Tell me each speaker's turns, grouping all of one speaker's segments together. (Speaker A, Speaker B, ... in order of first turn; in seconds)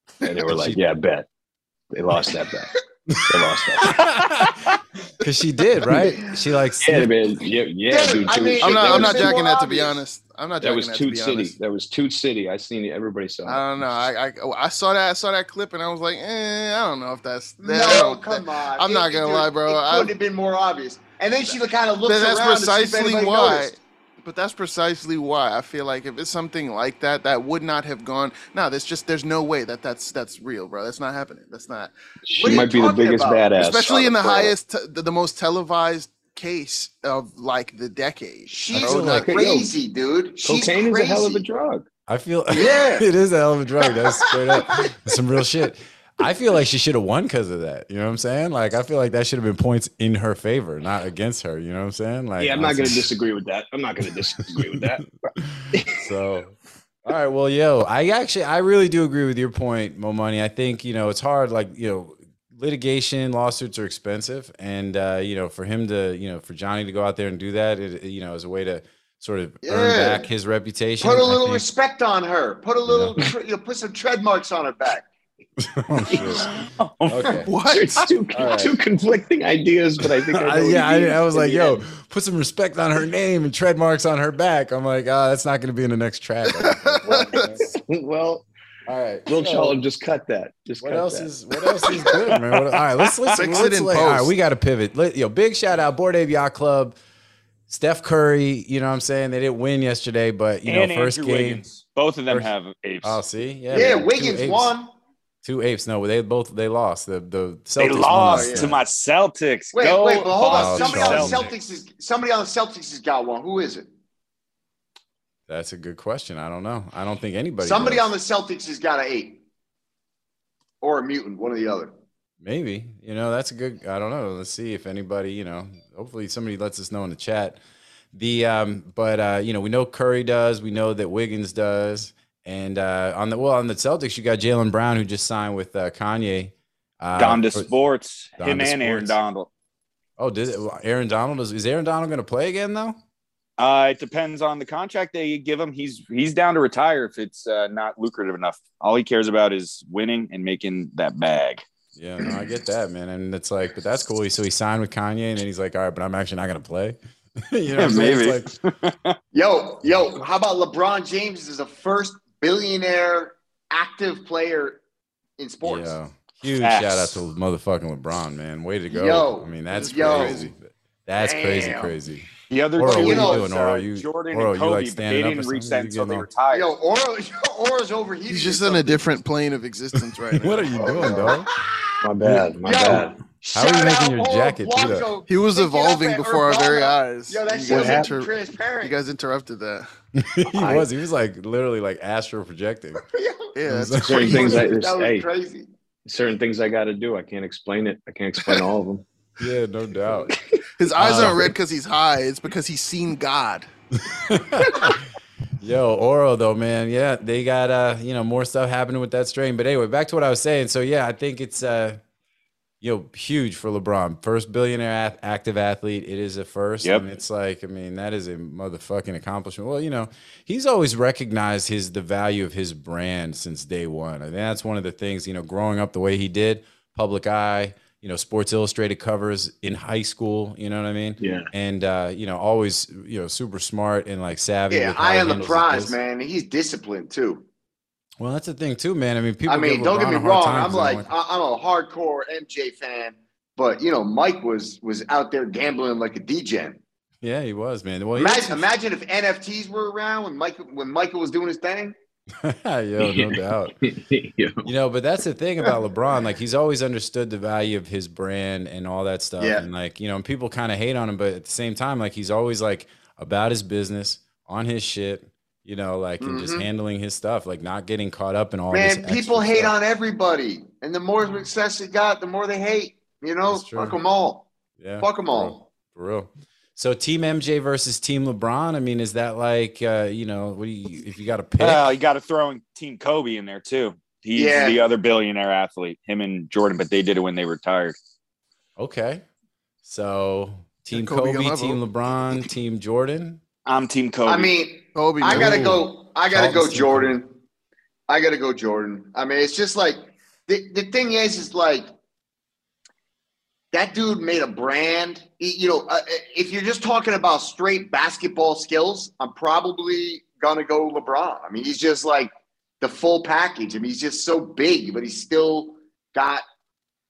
Speaker A: 0.2-1.2, 1.9-4.0, 6.8-9.3, 10.6-13.6, 32.2-34.5, 38.7-39.7, 40.4-41.9, 52.4-55.1, 55.7-56.1, 76.1-76.5, 77.6-81.8, 87.1-88.5, 89.3-91.3, 182.0-183.1, 187.7-188.1, 190.6-190.9, 194.0-195.2, 196.1-199.0, 200.1-200.6, 201.1-201.5, 231.2-231.5, 253.0-254.7
Speaker B: 0.5-0.8, 3.1-7.1, 38.7-39.3, 42.1-53.1, 54.5-56.5, 57.0-71.6, 72.8-73.1, 75.6-77.5, 78.3-78.8, 80.3-87.7, 88.9-89.8, 90.8-97.0, 97.7-101.6, 103.0-104.7, 105.4-108.8, 110.5-111.5, 115.5-118.1, 122.4-127.6, 128.1-137.7, 138.4-139.2, 140.2-143.0, 151.9-158.5, 165.6-176.3, 180.2-181.5, 182.2-185.1, 190.2-193.0, 193.7-194.6, 199.4-200.3, 201.0-201.5, 204.1-205.0, 205.6-212.0, 212.8-236.0, 238.2-241.1, 247.2-248.7, 252.4-253.7, 254.6-269.7, 273.5-274.0, 274.8-281.9, 288.8-289.2, 289.8-293.4, 295.3-297.1
Speaker C: 7.9-10.0, 17.6-23.7, 32.3-33.5, 38.5-41.5, 42.5-43.1, 43.8-45.0, 69.6-70.3, 71.0-75.0, 103.7-104.9, 108.3-108.8, 109.7-113.9, 117.6-119.4, 120.8-121.9, 159.3-164.8, 165.4-166.0, 168.9-170.5, 171.2-172.0, 172.9-173.5, 176.5-179.0, 180.8-181.5, 182.6-189.0, 193.1-193.5, 194.1-195.7, 234.7-237.4, 239.5-246.8, 248.2-251.9, 259.4-259.6, 266.2-266.7, 268.7-274.5, 275.0-275.6, 284.3-284.9, 294.2-297.3, 298.1-301.9, 303.7-316.4
Speaker D: 8.6-11.5, 13.4-20.1, 22.0-31.9, 33.5-38.7, 77.4-78.1, 86.5-87.6, 93.3-94.3, 169.7-170.5, 178.3-181.1, 185.3-189.9, 193.5-194.7, 200.8-203.7, 290.9-291.8, 294.9-295.7
Speaker E: 76.8-77.4, 92.2-93.5, 100.7-103.2, 107.8-111.5, 137.1-139.5, 143.6-151.6, 157.8-159.1, 166.6-167.2, 172.5-176.7, 281.6-287.9, 293.6-294.5